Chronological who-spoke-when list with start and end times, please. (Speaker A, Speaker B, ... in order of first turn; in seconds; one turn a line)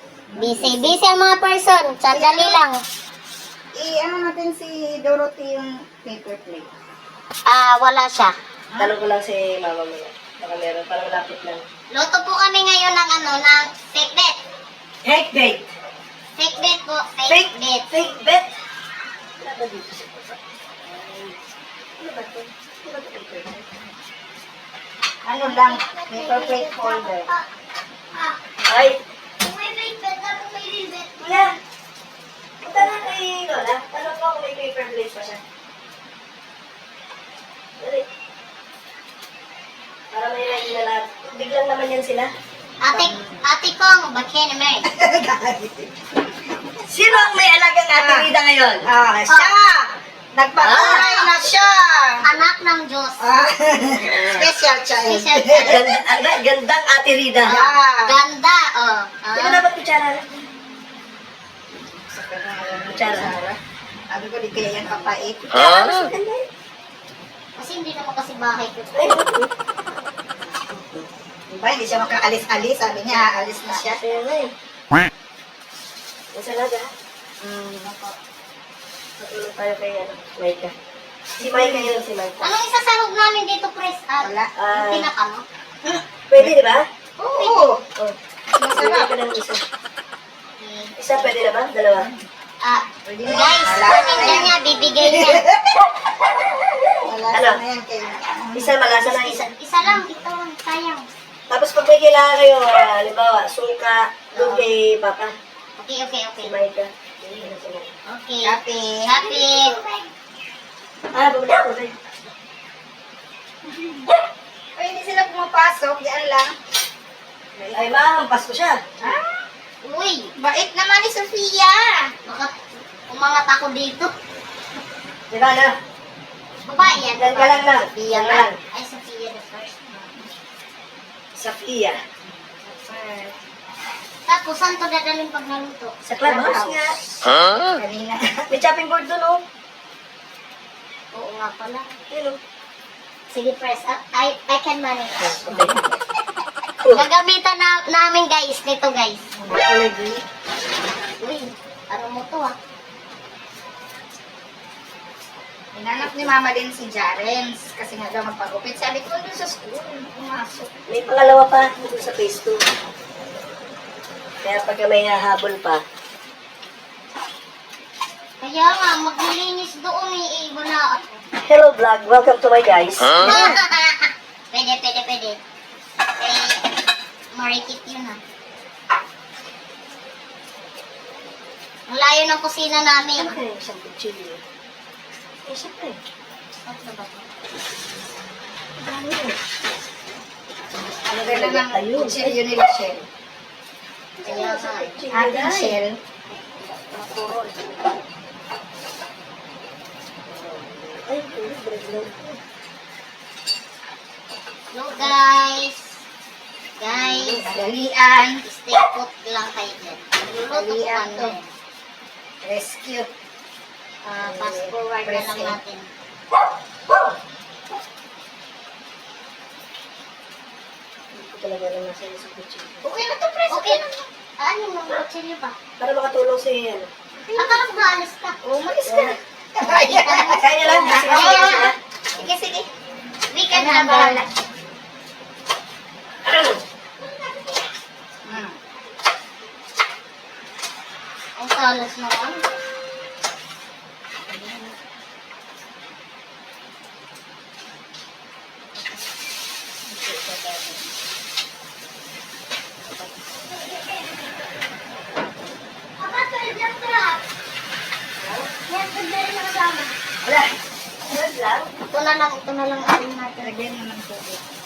Speaker A: 0.3-1.0
Speaker B: 0.4-2.8
Speaker A: 2.1-2.6
Speaker A: 3.8-6.7
Speaker B: 7.5-8.3
Speaker C: 8.8-11.6
Speaker B: 11.9-14.4
Speaker C: 15.0-15.7
Speaker B: 16.4-17.9
Speaker C: 17.3-18.5
Speaker C: 19.4-21.4
Speaker C: 22.0-23.7
Speaker A: 25.2-27.3
Speaker B: 25.4-27.5
Speaker B: 28.1-28.4
Speaker C: 28.7-29.0
Speaker B: 29.4-31.3
Speaker C: 31.2-31.6
Speaker C: 32.6-35.4
Speaker C: 37.8-38.0
Speaker C: 40.1-42.3
Speaker B: 42.8-44.9
Speaker A: 42.9-43.4
Speaker A: 44.9-46.1
Speaker C: 46.9-48.9
Speaker A: 48.0-48.3
Speaker A: 48.8-52.2
Speaker B: 49.3-49.5
Speaker C: 50.6-51.0
Speaker B: 50.6-51.4
Speaker B: 52.2-53.2
Speaker A: 53.2-55.8
Speaker B: 55.0-56.0
Speaker C: 55.6-57.5
Speaker A: 57.4-58.2
Speaker B: 57.5-59.7
Speaker C: 59.4-60.2
Speaker A: 62.0-63.6
Speaker C: 62.9-63.4
Speaker A: 64.1-65.7
Speaker C: 65.5-66.5
Speaker B: 67.6-69.2
Speaker C: 69.0-69.5
Speaker A: 71.5-74.0
Speaker C: 73.7-74.5
Speaker C: 76.3-76.9
Speaker A: 77.4-78.2
Speaker C: 79.2-80.7
Speaker C: 81.4-82.6
Speaker A: 81.4-82.0
Speaker B: 82.4-85.5
Speaker A: 84.2-84.5
Speaker C: 84.5-85.1
Speaker A: 85.8-86.5
Speaker C: 86.3-86.9
Speaker B: 87.2-87.7
Speaker A: 87.3-87.9
Speaker A: 88.5-89.1
Speaker C: 88.7-89.6
Speaker B: 90.6-91.3
Speaker C: 91.0-92.1
Speaker A: 92.0-92.3
Speaker B: 92.6-95.5
Speaker A: 93.0-95.9
Speaker C: 96.5-97.6
Speaker A: 97.0-98.8
Speaker C: 98.5-99.4
Speaker B: 99.0-101.1
Speaker C: 101.5-105.3
Speaker B: 105.8-106.6
Speaker C: 106.4-107.9
Speaker B: 108.1-109.7
Speaker A: 108.4-110.0
Speaker C: 111.1-112.0
Speaker A: 113.7-114.1
Speaker A: 114.8-116.5
Speaker A: 117.5-118.0
Speaker C: 117.7-118.9
Speaker A: 119.0-119.4
Speaker B: 119.8-120.3
Speaker A: 120.4-122.1
Speaker B: 122.2-122.6
Speaker B: 123.1-124.1
Speaker C: 125.3-125.8
Speaker B: 126.7-129.7
Speaker C: 127.2-128.6
Speaker A: 129.9-130.3
Speaker C: 131.4-132.0
Speaker A: 132.3-133.4
Speaker B: 134.3-136.0
Speaker C: 136.1-137.0
Speaker A: 136.2-136.8
Speaker A: 137.6-138.5
Speaker C: 138.5-139.4
Speaker B: 141.1-141.9
Speaker C: 142.1-142.4
Speaker B: 143.3-145.3
Speaker C: 145.2-145.9
Speaker A: 145.5-145.8
Speaker C: 146.8-147.1
Speaker B: 146.9-149.2
Speaker A: 149.4-150.2
Speaker B: 151.2-152.6
Speaker A: 155.7-160.7
Speaker C: 160.9-162.6
Speaker C: 164.4-165.8
Speaker B: 168.4-171.2
Speaker C: 171.4-173.6
Speaker B: 173.2-175.4
Speaker B: 176.2-176.7
Speaker B: 177.3-178.2
Speaker B: 181.9-183.4
Speaker C: 183.2-184.4
Speaker C: 185.5-186.0
Speaker B: 186.7-187.3
Speaker C: 188.8-189.4
Speaker A: 191.0-193.1
Speaker C: 191.2-192.5
Speaker C: 194.2-195.8
Speaker B: 194.2-195.0
Speaker A: 195.1-196.0
Speaker B: 196.9-197.5
Speaker C: 200.3-202.4
Speaker B: 204.7-205.9
Speaker B: 206.8-207.5
Speaker A: 206.9-208.4
Speaker B: 208.4-211.5
Speaker A: 210.5-211.4
Speaker A: 212.4-213.1
Speaker B: 214.0-215.9
Speaker A: 214.2-215.6
Speaker C: 221.1-222.9
Speaker A: 222.8-224.0
Speaker B: 223.5-223.9
Speaker B: 224.4-225.6
Speaker C: 225.8-226.9
Speaker A: 227.2-227.6
Speaker B: 227.3-228.4
Speaker A: 228.4-232.6
Speaker C: 228.9-229.2
Speaker B: 229.6-232.3
Speaker C: 230.4-231.8
Speaker B: 233.3-234.2
Speaker A: 233.5-234.3
Speaker C: 236.3-236.6
Speaker A: 238.2-238.6
Speaker B: 241.4-242.4
Speaker A: 244.3-244.7
Speaker A: 249.9-250.8
Speaker B: 256.0-257.2
Speaker C: 258.2-258.5
Speaker B: 258.6-259.9
Speaker C: 261.1-261.7
Speaker B: 261.9-263.6
Speaker A: 263.4-264.4